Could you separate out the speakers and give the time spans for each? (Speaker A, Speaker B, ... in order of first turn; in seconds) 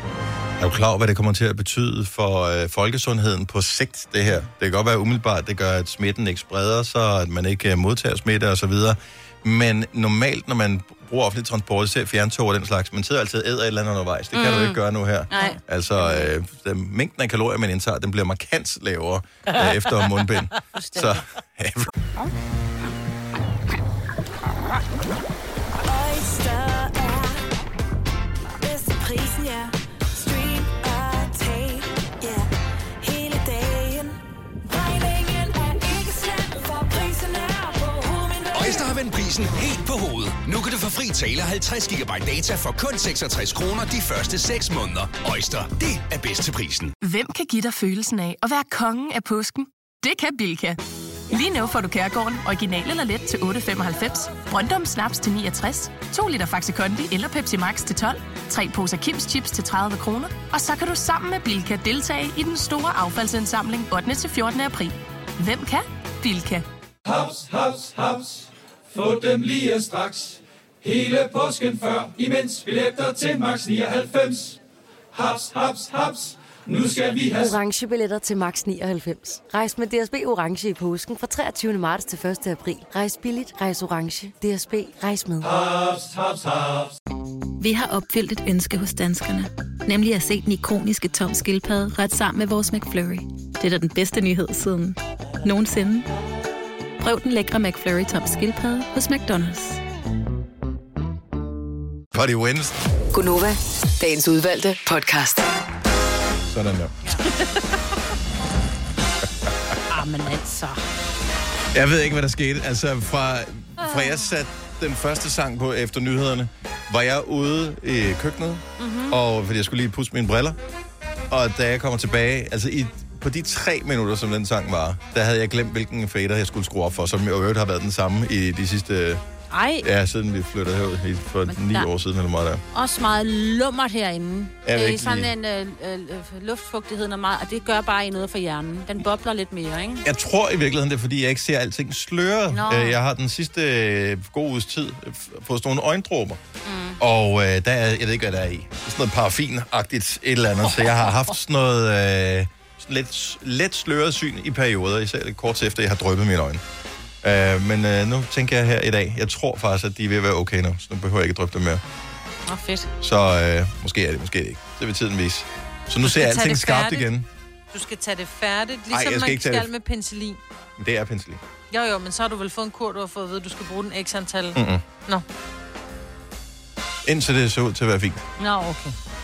Speaker A: 0.6-21.9, 102.1-102.7, 106.5-107.1, 111.7-120.6, 121.3-129.2, 129.8-132.6, 134.6-135.3, 140.0-146.4, 147.0-156.6, 157.2-161.8, 163.0-167.2, 168.9-169.7, 170.8-171.4, 174.5-174.8, 177.0-178.2
Speaker B: 14.3-14.8, 15.3-16.3, 20.8-21.2, 107.1-107.4, 109.9-110.8, 118.8-119.2, 129.5-129.8, 131.5-131.9, 132.7-140.0, 142.5-143.0, 146.6-147.0, 162.5-162.9, 178.4-178.9
Speaker C: 25.8-27.5, 28.6-32.5, 33.0-38.9
Speaker D: 38.5-47.0
Speaker E: 47.0-66.6
Speaker F: 67.0-74.6, 75.1-77.5, 85.4-86.9
Speaker G: 77.4-85.5
Speaker H: 87.6-96.1, 97.0-99.8
Speaker I: 103.1-105.4
Speaker J: 166.0-167.1, 167.7-170.4, 171.7-175.2